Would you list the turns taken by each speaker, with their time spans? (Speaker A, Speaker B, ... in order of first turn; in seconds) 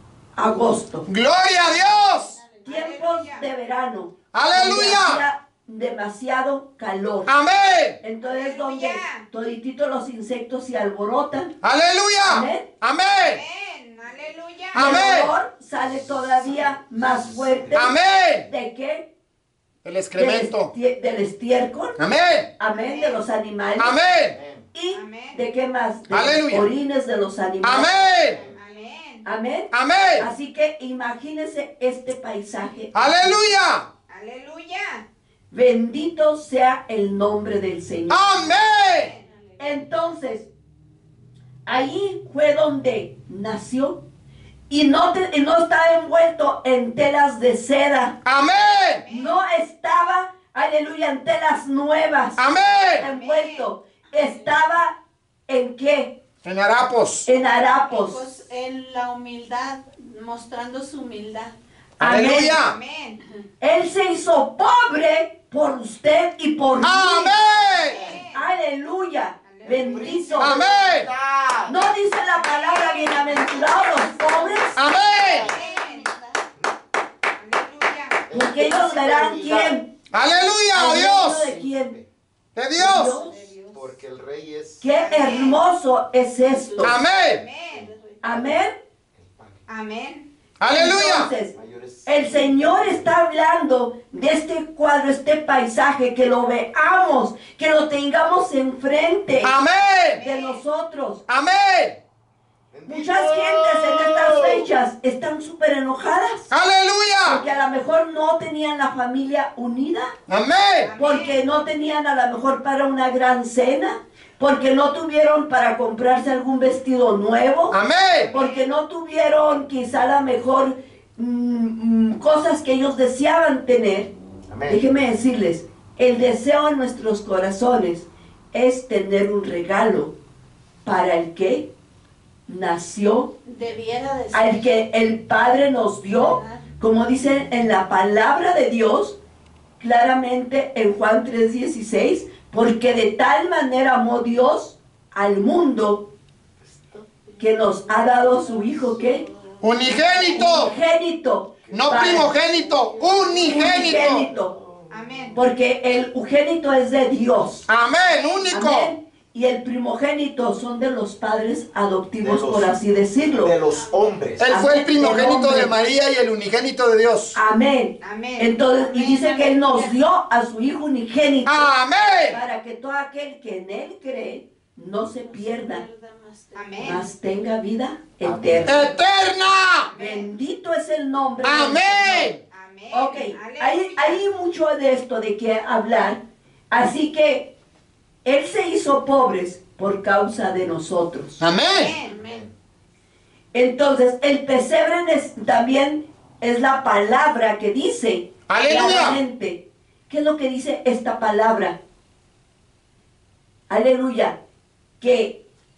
Speaker A: 0.3-1.1, 2.6-7.3, 8.0-11.5, 12.2-12.7, 14.7-19.1, 20.1-22.0, 22.6-24.0, 24.7-27.9, 29.2-33.4, 35.5-38.3, 39.6-40.5, 41.6-44.0, 44.7-48.2, 49.1-52.4, 53.0-55.0, 55.5-56.1, 57.2-58.3, 62.0-62.6, 63.6-67.4, 68.3-70.6, 71.7-74.8, 78.3-79.9, 80.7-82.0, 82.7-83.3, 84.8-87.0, 88.2-88.7, 90.7-91.5, 92.0-99.5, 100.2-101.2, 102.8-106.5, 107.2-110.1, 111.0-117.8, 118.3-124.1, 124.7-130.1, 130.8-131.7, 132.5-133.3, 134.3-139.2, 139.8-146.1, 147.4-149.2, 150.3-152.3, 153.4-154.5, 155.3-157.7, 158.5-163.5, 164.5-165.7, 167.3-171.7, 172.3-175.8, 176.8-178.9, 180.0-182.3, 182.9-187.5, 188.2-191.4, 193.5-201.8, 203.7-204.4, 205.0-205.4
Speaker B: 1.1-2.4, 4.3-5.2, 7.2-8.0, 11.6-13.4, 14.7-15.3, 17.7-18.5, 19.8-20.7, 22.0-22.5, 23.8-24.4, 26.1-26.7, 27.6-28.4, 29.7-30.3, 32.9-33.9, 38.1-39.1, 48.2-49.0, 52.4-53.0, 56.4-57.3, 62.0-62.7, 66.8-68.0, 70.4-71.1, 74.8-75.5, 80.1-81.5, 82.5-83.2, 86.8-87.4, 90.6-91.3, 99.4-100.2, 101.3-102.0, 106.5-107.4, 110.3-110.9, 117.7-118.3, 149.6-150.7, 151.7-154.3, 157.7-158.9, 164.4-167.3, 171.4-172.4, 178.7-179.9, 181.4-182.4, 191.4-191.9, 198.5-199.2
Speaker C: 2.3-2.6, 39.2-39.8, 54.1-54.5, 57.7-61.5, 73.3-74.8, 75.4-76.4, 83.1-83.9, 87.8-88.5, 133.4-134.7, 136.1-136.7, 148.1-150.6, 163.7-164.4, 168.7-170.0, 175.2-177.0, 192.0-192.5
Speaker D: 2.6-3.4, 8.2-9.2, 13.2-14.9, 22.7-23.2, 24.9-25.4, 28.6-29.2, 34.1-35.0, 38.8-39.2, 48.9-49.3, 53.0-53.7, 62.2-63.2, 67.6-68.5, 69.5-70.6, 72.3-74.6, 75.4-76.1, 77.4-78.2, 84.9-85.6, 87.2-87.9, 89.7-90.3, 100.1-100.6, 110.8-111.4, 118.2-118.6, 154.9-155.4, 158.1-158.4, 168.0-168.5, 176.5-177.0, 179.8-180.3, 182.5-184.2, 191.7-192.2
Speaker E: 16.4-17.8, 24.3-24.6, 28.3-28.6, 67.9-68.2, 69.6-71.7, 75.2-75.6, 78.3-79.8, 81.4-82.0, 83.7-84.8, 89.2-89.6, 91.5-92.8, 102.7-104.7, 124.5-124.8, 146.6-147.4, 151.7-155.4, 162.2-164.4, 178.2-178.9, 192.2-192.5